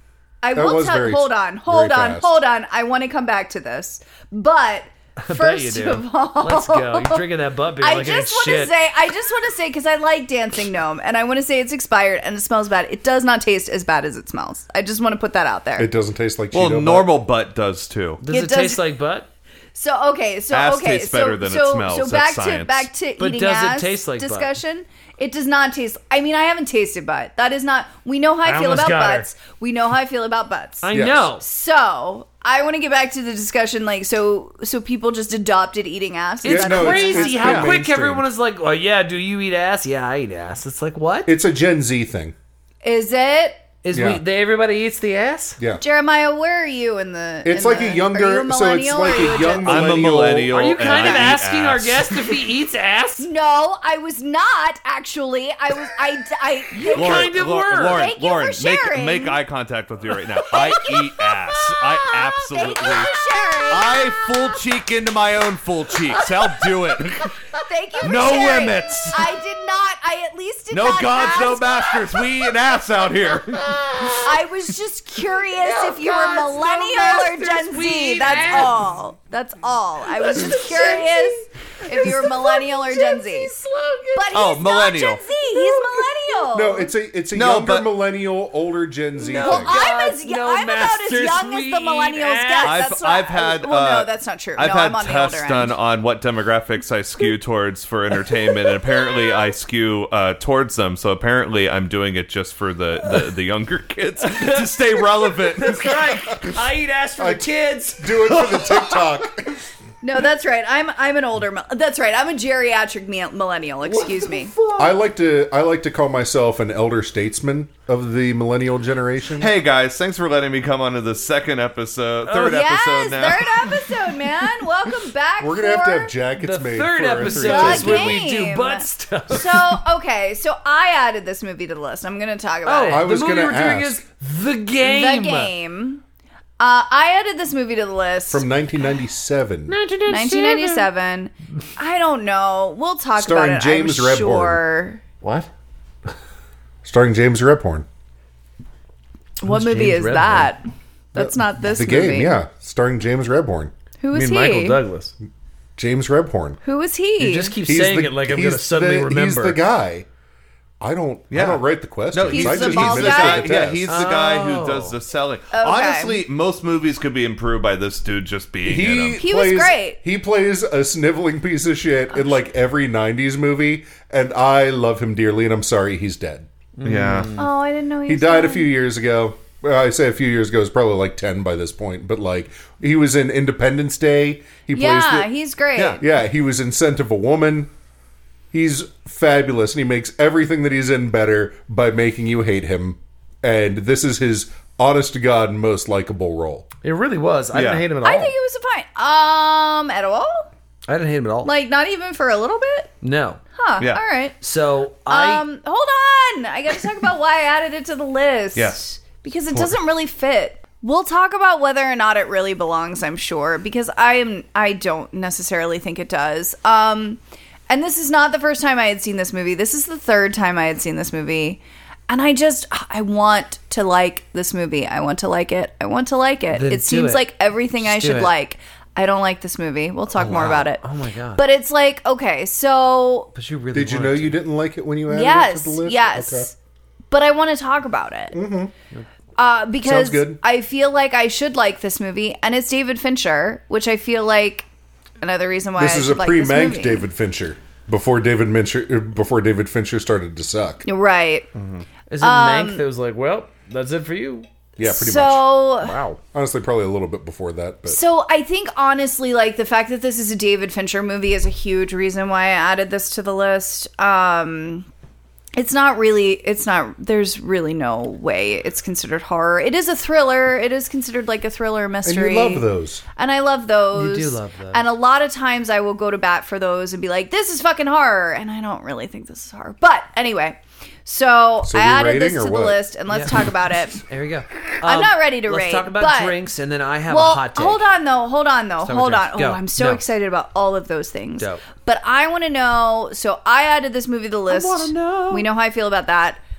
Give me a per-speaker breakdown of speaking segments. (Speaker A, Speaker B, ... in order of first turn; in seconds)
Speaker A: 0.4-7.2, 7.8-15.9, 18.3-18.8, 19.7-37.7, 42.8-43.6, 45.8-50.1, 50.8-51.3, 53.2-59.4, 60.5-61.0, 62.5-64.1, 67.6-72.4, 74.2-83.5, 84.1-86.9, 89.3-95.8, 98.8-99.5, 110.0-114.5, 122.2-126.1, 127.2-133.0, 134.8-136.0, 136.6-138.4, 140.1-145.0, 149.4-152.4, 154.0-154.8, 156.6-157.6, 162.3-163.6, 165.5-166.2, 169.2-170.0, 177.3-178.7, 184.7-186.0, 198.0-200.5, 201.4-202.9, 203.6-204.4, 205.1-230.8, 231.4-233.3, 235.1-236.5, 237.1-238.3, 239.4-244.7, 245.2-247.1, 250.8-251.5, 252.2-252.8, 254.8-256.0, 257.9-264.9, 265.5-284.0, 284.8-286.4, 287.1-296.4
Speaker B: 0.5-2.3, 15.8-17.1, 30.9-31.3, 36.4-38.2, 41.2-42.3, 43.9-44.2, 47.4-50.5, 86.5-89.8, 107.2-109.6, 114.8-119.5, 125.4-128.2, 132.9-134.0, 138.3-139.8, 143.2-144.6, 146.8-147.8, 151.2-153.7, 155.8-156.6, 157.6-160.1, 160.8-163.9, 168.6-176.5, 178.1-185.3, 186.0-187.7, 188.5-196.7, 233.7-236.5, 238.3-238.7, 239.8-240.4, 245.8-250.8, 254.8-255.7, 256.3-258.0, 272.0-273.0, 281.6-282.8
Speaker C: 5.2-8.7, 18.2-19.3, 23.2-24.5, 28.4-29.3, 30.8-31.4, 36.4-41.3, 43.8-45.6, 50.5-53.3, 56.7-58.1, 60.5-64.3, 66.1-66.7, 73.5-74.4, 75.3-78.8, 80.0-84.5, 85.3-86.5, 89.2-92.8, 104.2-108.9, 113.8-115.0, 126.4-129.8, 132.6-135.5, 139.7-140.9, 145.2-145.5, 149.4-150.5, 154.1-155.1, 157.2-159.6, 163.9-165.0, 176.8-177.5, 196.8-198.3, 200.9-201.5, 203.0-203.4, 204.4-205.4, 226.5-228.3, 230.2-231.4, 233.3-234.4, 252.1-254.5, 255.8-256.2, 273.9-274.8, 283.1-283.4, 284.0-287.9, 288.8-290.0, 294.5-295.4
Speaker D: 16.5-18.2, 20.5-22.9, 49.6-52.3, 56.9-63.2, 63.7-67.3, 68.0-69.3, 70.7-73.7, 84.3-85.2, 87.3-87.9, 92.6-106.0, 119.4-123.9, 161.3-169.2, 176.8-177.4, 185.8-186.0, 197.5-197.8, 208.5-208.8, 251.6-251.8